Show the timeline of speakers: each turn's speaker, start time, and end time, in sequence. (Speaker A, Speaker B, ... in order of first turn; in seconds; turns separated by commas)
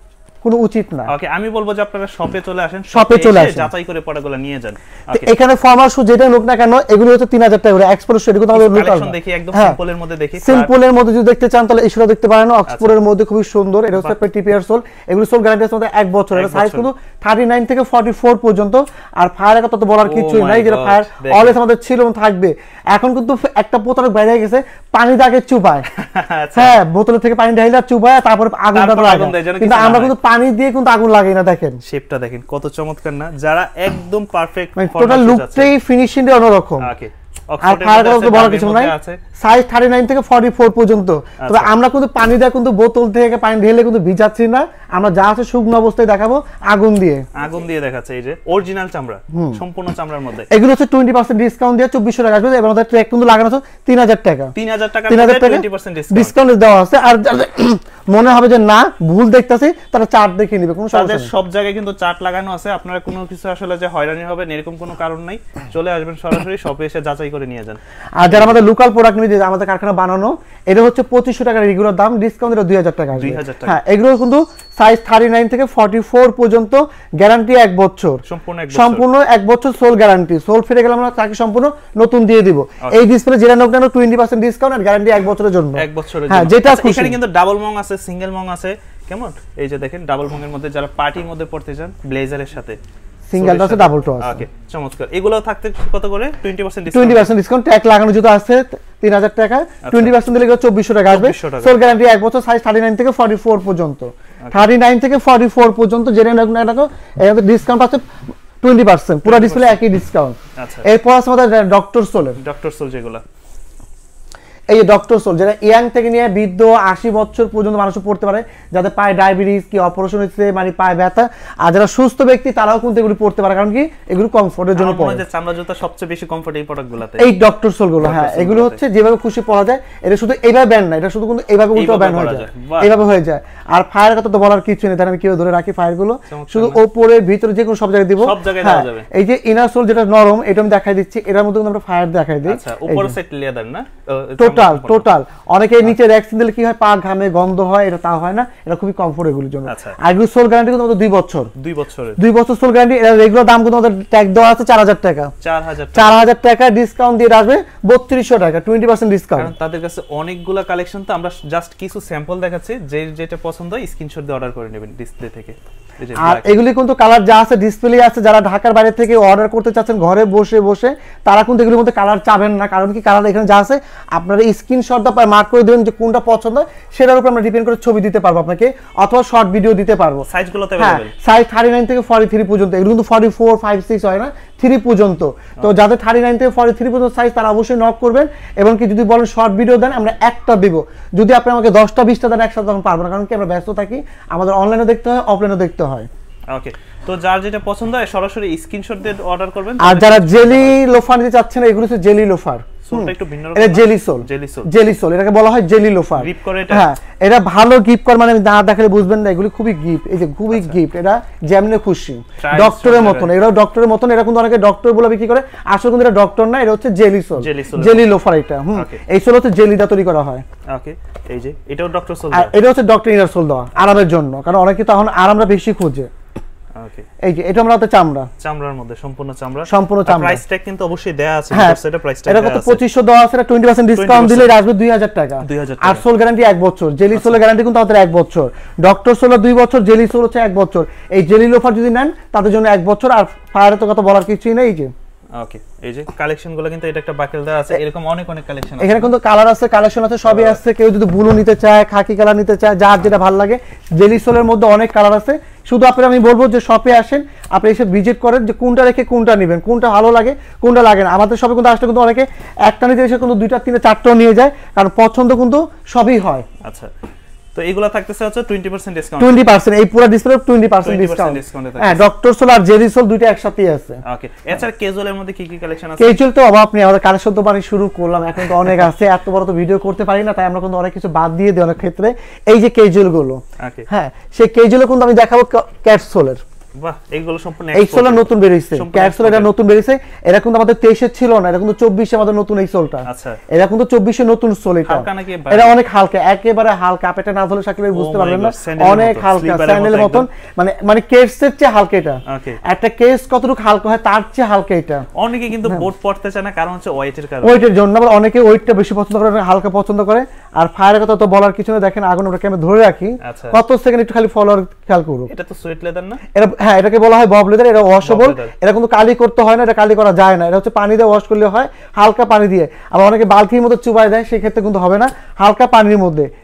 Speaker A: 0.4-1.1, Speaker B: 1.1-5.3, Speaker A: 2.9-3.7, Speaker A: 5.1-9.8, Speaker B: 8.5-10.7, Speaker A: 10.4-25.9, Speaker B: 12.7-13.0, Speaker B: 16.3-16.9, Speaker B: 20.0-21.6, Speaker B: 25.9-26.8, Speaker A: 26.6-31.8, Speaker B: 28.7-30.2, Speaker B: 31.9-35.7, Speaker A: 34.8-36.9, Speaker B: 36.8-39.2, Speaker A: 37.6-47.2, Speaker B: 41.4-41.7, Speaker B: 47.4-50.5, Speaker A: 49.3-49.6, Speaker A: 50.5-54.5, Speaker B: 54.6-56.4, Speaker A: 55.1-61.3, Speaker B: 60.9-68.6, Speaker A: 68.2-78.2, Speaker B: 73.2-73.8, Speaker B: 78.3-79.0, Speaker A: 78.7-87.2, Speaker B: 85.8-92.8, Speaker A: 93.3-94.4, Speaker B: 93.4-97.3, Speaker A: 96.9-108.0, Speaker B: 99.8-100.2, Speaker B: 101.1-101.8, Speaker A: 108.6-112.4, Speaker B: 109.2-109.8, Speaker B: 110.6-110.9, Speaker B: 112.4-113.2, Speaker A: 114.7-125.2, Speaker B: 124.8-127.3, Speaker A: 127.2-143.2, Speaker B: 128.0-128.8, Speaker B: 131.7-132.9, Speaker B: 136.3-136.8, Speaker B: 138.2-139.1, Speaker B: 142.5-145.1, Speaker A: 144.4-151.5, Speaker B: 149.7-150.0, Speaker B: 151.6-152.2, Speaker A: 152.2-155.3, Speaker B: 155.4-156.2, Speaker A: 155.9-159.5, Speaker B: 159.4-166.6, Speaker A: 166.2-180.3, Speaker B: 180.3-181.1, Speaker A: 180.8-196.1, Speaker B: 196.5-200.8, Speaker A: 199.8-220.4, Speaker B: 202.8-204.7, Speaker B: 206.2-206.9, Speaker B: 210.5-210.8, Speaker B: 212.4-213.3, Speaker B: 217.4-218.1, Speaker B: 218.7-219.0, Speaker B: 220.7-222.5, Speaker A: 222.3-226.1, Speaker B: 226.8-227.1, Speaker A: 227.2-228.3, Speaker B: 228.4-232.8, Speaker A: 229.7-230.4, Speaker A: 231.5-244.9, Speaker B: 233.9-234.5, Speaker B: 235.4-236.1, Speaker B: 237.1-237.4, Speaker B: 245.4-249.1, Speaker A: 248.8-266.5, Speaker B: 250.2-250.6, Speaker B: 266.6-266.9, Speaker B: 267.6-269.5, Speaker A: 269.2-274.0, Speaker B: 270.8-272.1, Speaker B: 274.1-276.2, Speaker A: 276.0-286.4, Speaker B: 283.6-283.9, Speaker B: 286.8-289.5, Speaker A: 287.7-305.1, Speaker B: 293.1-293.4, Speaker B: 294.9-295.8, Speaker B: 297.9-300.3, Speaker B: 302.3-302.6, Speaker B: 305.1-307.7, Speaker A: 307.4-315.3, Speaker B: 313.2-313.6, Speaker B: 315.3-316.2, Speaker A: 316.3-326.3, Speaker B: 318.0-318.5